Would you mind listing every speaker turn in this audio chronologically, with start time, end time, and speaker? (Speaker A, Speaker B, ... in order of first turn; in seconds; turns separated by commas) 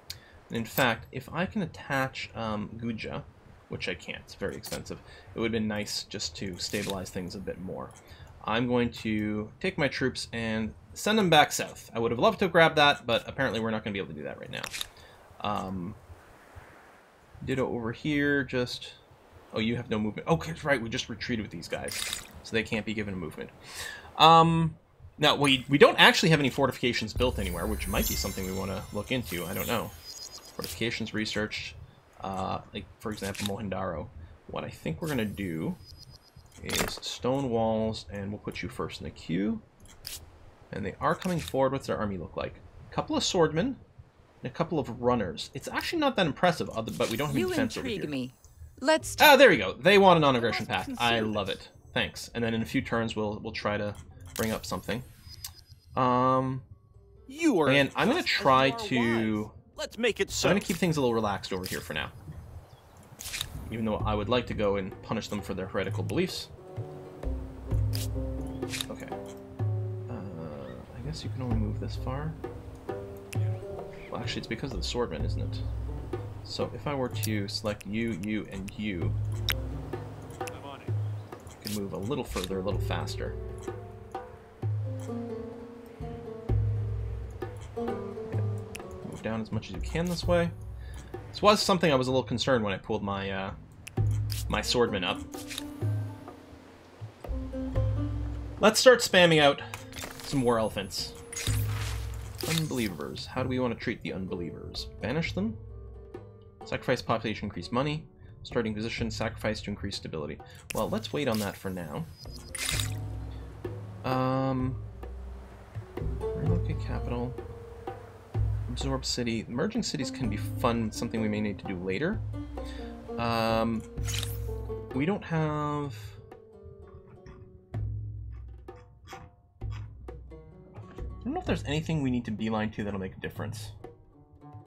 Speaker A: 0.5-14.7, Speaker A: 15.4-16.0, Speaker A: 17.4-19.0, Speaker A: 19.5-23.5, Speaker A: 24.2-29.9, Speaker A: 30.6-35.8, Speaker A: 36.6-39.6, Speaker A: 40.7-43.8, Speaker A: 44.4-48.2, Speaker B: 47.3-49.4, Speaker A: 49.2-55.1, Speaker B: 50.4-51.5, Speaker A: 56.0-56.6, Speaker C: 57.3-60.7, Speaker A: 57.7-59.5, Speaker A: 60.4-62.1, Speaker A: 63.7-66.5, Speaker A: 68.9-69.1, Speaker A: 70.1-72.4, Speaker A: 74.1-75.6, Speaker A: 76.5-79.2, Speaker C: 80.5-80.9, Speaker A: 81.6-83.4, Speaker A: 89.0-90.5, Speaker A: 91.3-93.5, Speaker A: 94.5-95.2, Speaker A: 98.6-99.7, Speaker A: 100.2-101.2, Speaker A: 102.5-105.6, Speaker A: 106.6-112.1, Speaker A: 114.0-114.8, Speaker A: 116.3-117.4, Speaker A: 118.7-122.2, Speaker A: 123.2-123.9, Speaker A: 124.9-126.2, Speaker A: 131.2-133.7